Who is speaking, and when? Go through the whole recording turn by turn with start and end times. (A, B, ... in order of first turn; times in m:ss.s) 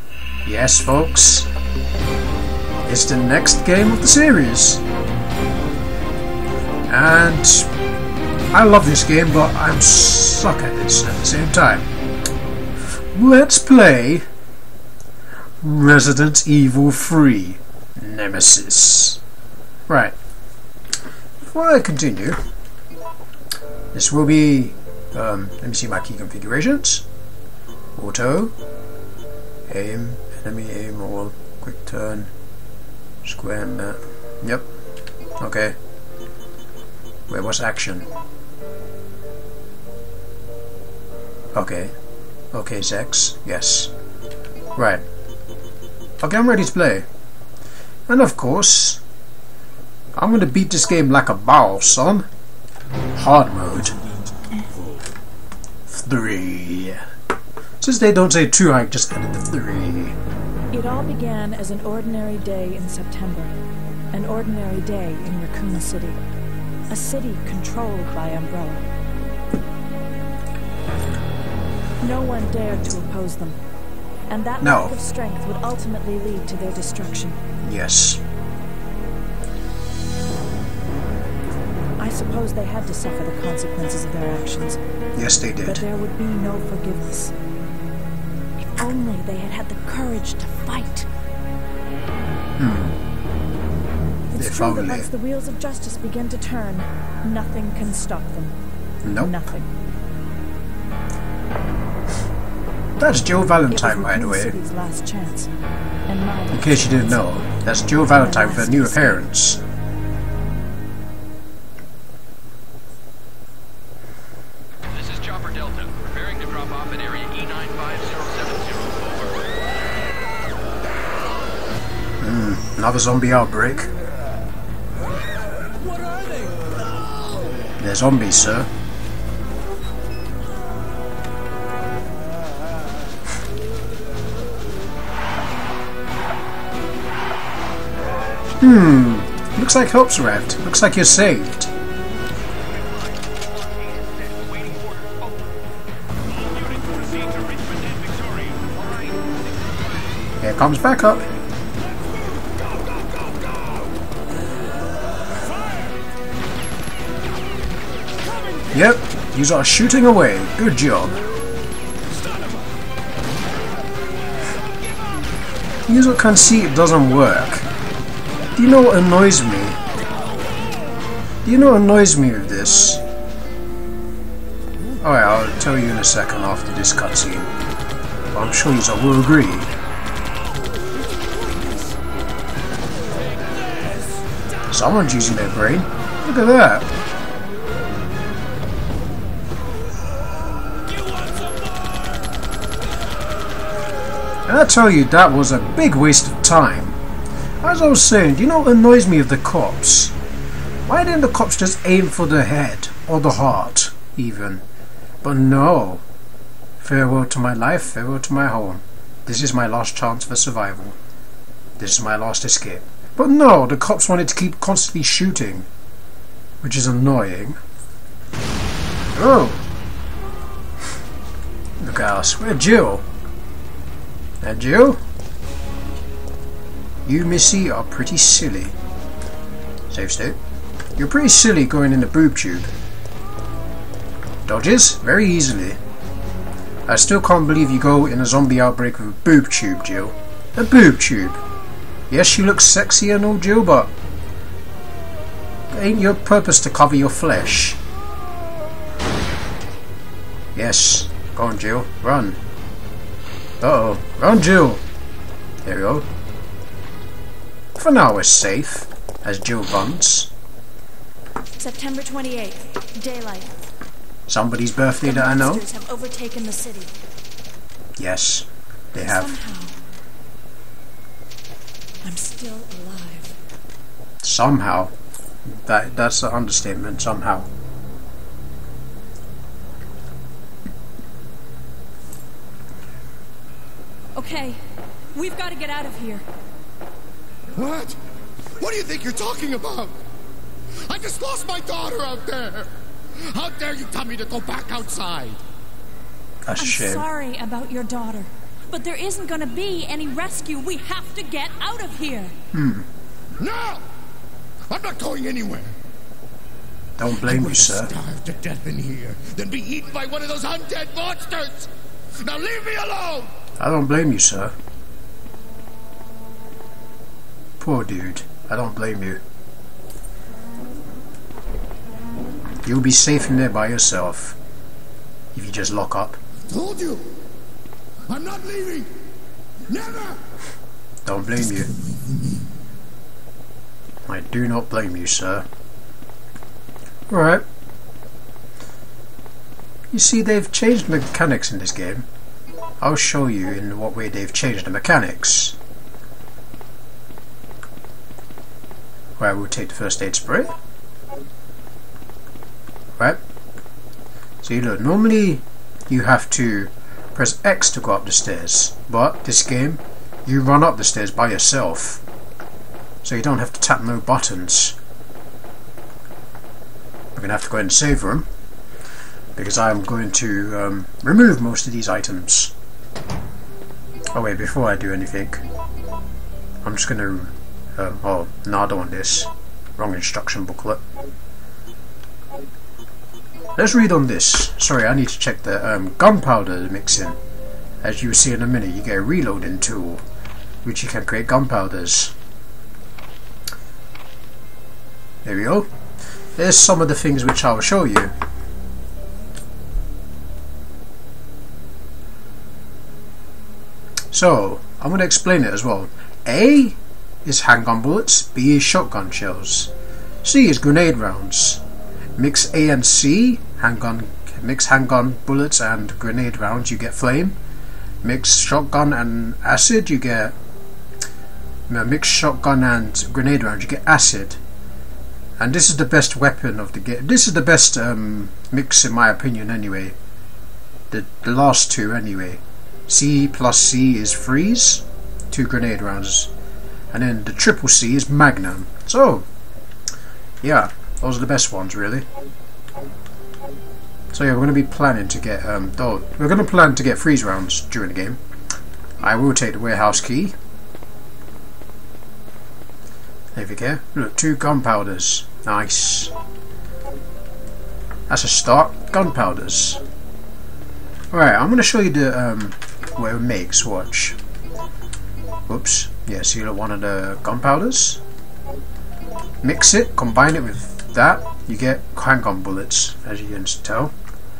0:00.4-0:01.5 A
0:02.9-0:04.8 A
0:06.9-0:07.7 A
0:08.5-0:11.9 A
0:13.1-0:14.2 A
0:15.6-0:19.2 A
0:19.9-0:20.1 A
0:21.4-0:22.4 A
0:23.9-0:27.1 A
0:28.0-0:28.5 A
0:29.7-0:32.3 A
0:33.2-0:34.6 A
0:35.4-0:35.8 A
0:37.3-0:38.1 A
0:41.6-0:41.9 A
0:42.5-0:43.9 A
0:44.8-0:45.0 A
0:46.2-0:47.0 A
0:48.1-0:49.0 A
0:50.2-0:52.3 A
0:53.1-0:54.0 A
0:55.9-0:57.0 A
0:57.8-1:00.2 A
1:00.7-1:03.6 B
1:04.1-1:06.2 B
1:06.9-1:08.8 B
1:12.0-1:13.6 B
1:14.3-1:17.4 B
1:14.6-1:15.0 A
1:17.6-1:18.2 A
1:22.0-1:24.8 B
1:25.2-1:25.8 A
1:25.6-1:27.3 B
1:28.7-1:31.1 B
1:32.6-1:33.0 A
1:34.3-1:38.6 B
1:34.4-1:35.1 A
1:39.0-1:39.3 A
1:39.2-1:39.7 B
1:43.0-1:44.6 A
1:43.7-1:45.5 B
1:46.1-1:49.2 B
1:46.5-1:49.6 A
1:54.9-1:59.4 C
2:02.2-2:03.9 A
2:05.8-2:06.4 C
2:07.8-2:08.7 A
2:18.6-2:21.7 A
2:22.7-2:25.3 C
2:26.5-2:29.2 C
2:30.4-2:31.2 A
2:33.2-2:33.8 C
2:38.7-2:41.2 A
2:45.9-2:47.7 A
2:48.6-2:49.8 A
2:51.4-2:53.0 A
2:55.0-2:57.5 A
2:58.3-2:59.7 A
3:01.4-3:01.8 C
3:04.7-3:06.9 A
3:10.9-3:12.1 C
3:14.5-3:17.0 A
3:17.6-3:20.2 A
3:20.8-3:24.6 A
3:25.2-3:26.0 A
3:26.8-3:31.0 A
3:31.8-3:35.7 A
3:36.6-3:37.6 A
3:39.2-3:39.6 A
3:41.8-3:43.0 A
3:44.4-3:45.0 A
3:47.0-3:48.8 A
3:49.9-3:50.4 A
3:51.0-3:52.7 A
3:54.5-3:55.8 A
3:56.9-4:01.4 A
4:02.1-4:03.9 A
4:05.7-4:07.8 A
4:10.5-4:12.4 A
4:13.6-4:14.8 A
4:15.6-4:16.1 A
4:17.8-4:20.3 A
4:21.6-4:23.5 B
4:24.3-4:25.6 A
4:25.0-4:26.9 B
4:28.0-4:29.3 A
4:29.0-4:29.8 B
4:32.0-4:33.3 B
4:34.2-4:34.9 A
4:35.6-4:37.5 A
4:44.2-4:44.6 B
4:45.1-4:46.2 B
4:47.5-4:48.0 C
4:48.6-4:49.9 C
4:50.8-4:55.4 C
4:56.4-4:57.0 A
4:56.6-5:02.3 B
5:02.5-5:02.9 A
5:03.4-5:03.8 C
5:04.7-5:05.7 C
5:07.0-5:07.9 A
5:07.2-5:13.3 C
5:13.6-5:14.5 A
5:17.6-5:19.2 A
5:22.6-5:24.4 A
5:25.3-5:26.2 A
5:26.5-5:27.1 C
5:28.1-5:28.9 C
5:29.7-5:30.2 C
5:31.0-5:31.7 A
5:34.1-5:35.4 A
5:37.1-5:37.4 A
5:39.9-5:42.1 A
5:42.8-5:45.6 A
5:49.2-5:50.5 A
5:54.4-6:02.0 A
6:03.0-6:04.8 A
6:07.1-6:08.3 A
6:09.4-6:12.5 A
6:14.1-6:15.4 A
6:16.6-6:20.8 A
6:23.6-6:27.2 A
6:27.8-6:30.0 A
6:30.6-6:32.1 A
6:35.2-6:35.7 A
6:36.4-6:38.1 A
6:44.1-6:49.7 A
6:50.2-6:51.6 A
6:52.2-6:57.4 A
6:58.0-7:00.3 A
7:01.7-7:04.4 A
7:05.4-7:10.0 A
7:10.9-7:16.3 A
7:16.9-7:19.2 A
7:20.4-7:22.0 A
7:24.1-7:28.2 A
7:29.0-7:30.4 A
7:33.3-7:36.1 A
7:38.1-7:39.8 A
7:41.1-7:44.2 A
7:45.5-7:48.0 A
7:49.4-7:53.9 A